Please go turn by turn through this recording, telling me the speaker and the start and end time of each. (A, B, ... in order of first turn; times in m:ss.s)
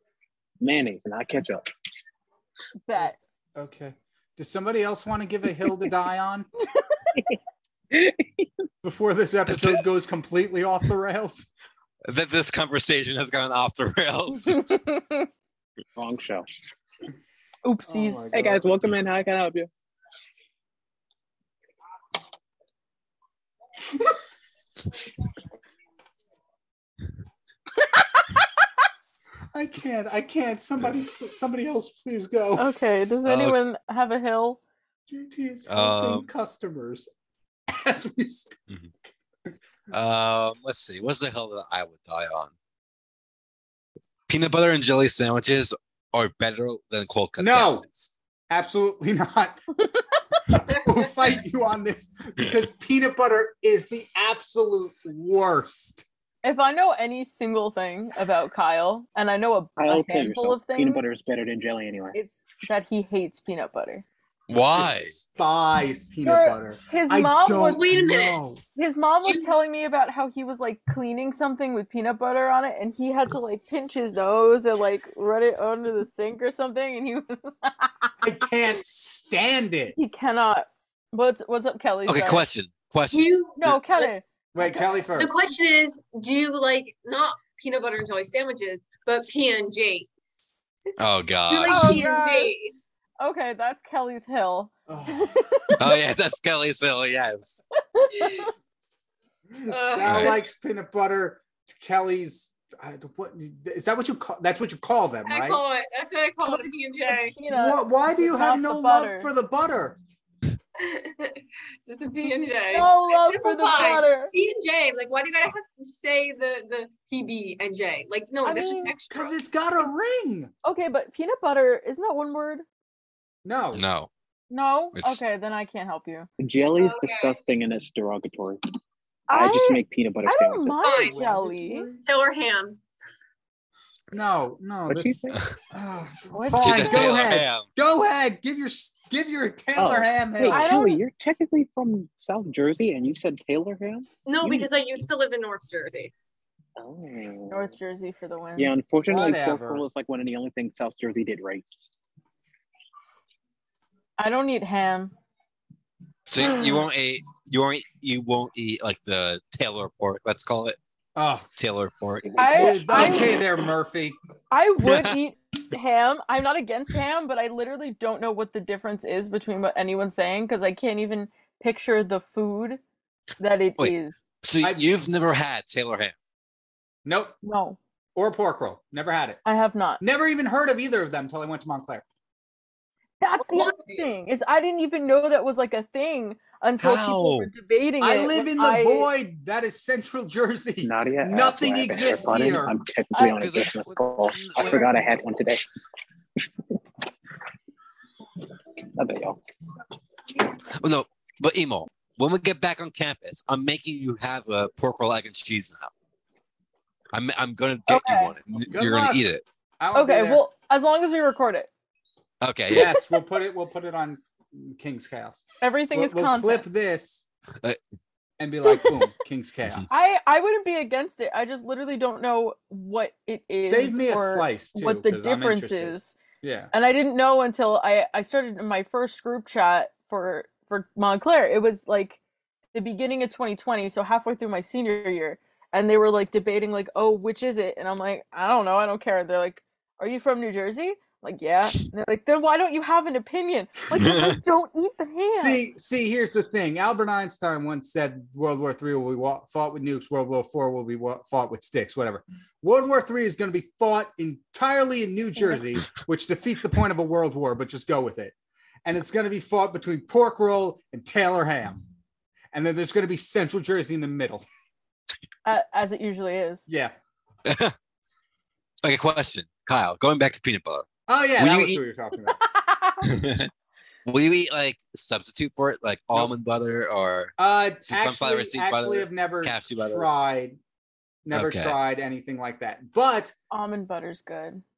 0:00.6-0:01.6 A
0:02.8-0:03.2 B
0:03.6-0:06.5 C
0:07.9-0:08.5 A
0:08.8-0:11.5 C
0:09.5-0:09.8 D
0:12.1-0:14.6 D
0:14.4-0:15.3 B
0:16.0-0:16.4 A
0:17.6-0:18.5 B
0:17.8-0:18.8 C
0:18.3-0:19.7 A
0:29.5-0:32.7 C
0:32.6-0:34.6 B
0:33.2-0:33.6 D
0:35.1-0:37.1 C
0:35.7-0:36.3 D
0:37.7-0:38.6 C
0:39.9-0:42.5 D
0:44.3-0:48.1 D
0:47.4-0:47.8 C
0:48.5-0:49.6 C
0:50.5-0:56.0 C
0:56.4-1:01.0 B
0:59.8-1:02.2 A
1:02.1-1:04.0 B
1:04.5-1:05.1 D
1:04.7-1:08.6 C
1:06.2-1:07.8 B
1:07.6-1:08.4 E
1:08.7-1:18.1 B
1:09.2-1:09.5 E
1:18.2-1:20.0 C
1:20.0-1:22.5 B
1:22.0-1:23.7 D
1:23.1-1:24.1 E
1:23.6-1:25.0 B
1:24.5-1:25.4 C
1:25.1-1:30.1 E
1:31.0-1:32.0 D
1:31.5-1:32.9 E
1:31.6-1:32.5 B
1:33.2-1:35.8 B
1:34.9-1:36.0 C
1:35.8-1:37.6 D
1:37.9-1:38.5 B
1:38.1-1:38.5 E
1:39.5-1:45.6 C
1:39.7-1:40.4 E
1:40.0-1:40.4 D
1:45.2-1:47.4 E
1:47.2-1:49.3 B
1:47.5-1:50.0 C
1:50.8-1:59.4 E
1:52.7-1:54.3 B
1:58.4-1:58.9 B
1:59.1-2:00.5 C
2:00.6-2:02.6 B
2:03.4-2:03.8 C
2:03.7-2:04.1 D
2:04.5-2:06.3 B
2:04.9-2:05.2 D
2:06.4-2:08.6 A
2:06.8-2:07.4 E
2:09.3-2:11.9 B
2:09.3-2:10.8 A
2:10.8-2:11.2 E
2:11.1-2:12.0 C
2:12.0-2:12.8 E
2:14.1-2:20.8 C
2:14.9-2:15.4 A
2:16.3-2:17.1 B
2:16.6-2:17.6 D
2:19.8-2:24.1 A
2:20.4-2:21.0 B
2:24.2-2:26.1 E
2:26.8-2:27.7 A
2:27.5-2:28.7 B
2:28.6-2:31.6 A
2:29.1-2:29.8 C
2:34.2-2:35.1 B
2:36.3-2:40.8 D
2:41.2-2:41.6 C
2:41.6-2:42.7 D
2:42.4-2:43.4 B
2:42.5-2:44.2 C
2:44.5-2:52.8 B
2:44.8-2:45.1 D
2:53.4-2:54.2 B
2:53.8-2:56.1 D
2:54.6-2:54.9 C
2:57.0-2:57.3 C
2:57.4-2:57.8 B
2:58.1-2:59.4 C
2:59.4-3:00.0 B
3:00.0-3:02.0 C
3:03.2-3:09.1 B
3:03.4-3:04.1 E
3:06.8-3:07.5 D
3:08.0-3:12.8 C
3:10.8-3:15.7 A
3:13.1-3:13.5 B
3:13.4-3:14.9 D
3:18.8-3:19.4 A
3:20.7-3:25.9 D
3:27.1-3:29.4 D
3:27.9-3:28.4 B
3:28.7-3:29.3 C
3:29.8-3:30.4 C
3:29.9-3:31.7 B
3:32.4-3:33.0 D
3:32.7-3:37.2 C
3:35.6-3:36.7 B
3:38.4-3:39.9 C
3:38.6-3:39.0 B
3:39.9-3:46.2 B
3:43.6-3:46.7 C
3:46.7-3:52.2 B
3:52.7-4:05.6 B
4:04.0-4:04.4 D
4:05.3-4:21.8 C
4:22.5-4:24.4 C
4:25.4-4:26.6 B
4:26.7-4:26.9 C
4:27.4-4:27.7 D
4:28.8-4:31.8 D
4:31.1-4:32.4 C
4:32.5-4:33.0 B
4:33.0-4:33.5 D
4:34.0-4:40.1 D
4:37.4-4:40.6 C
4:41.2-4:43.3 C
4:41.3-4:41.8 D
4:43.5-4:44.6 B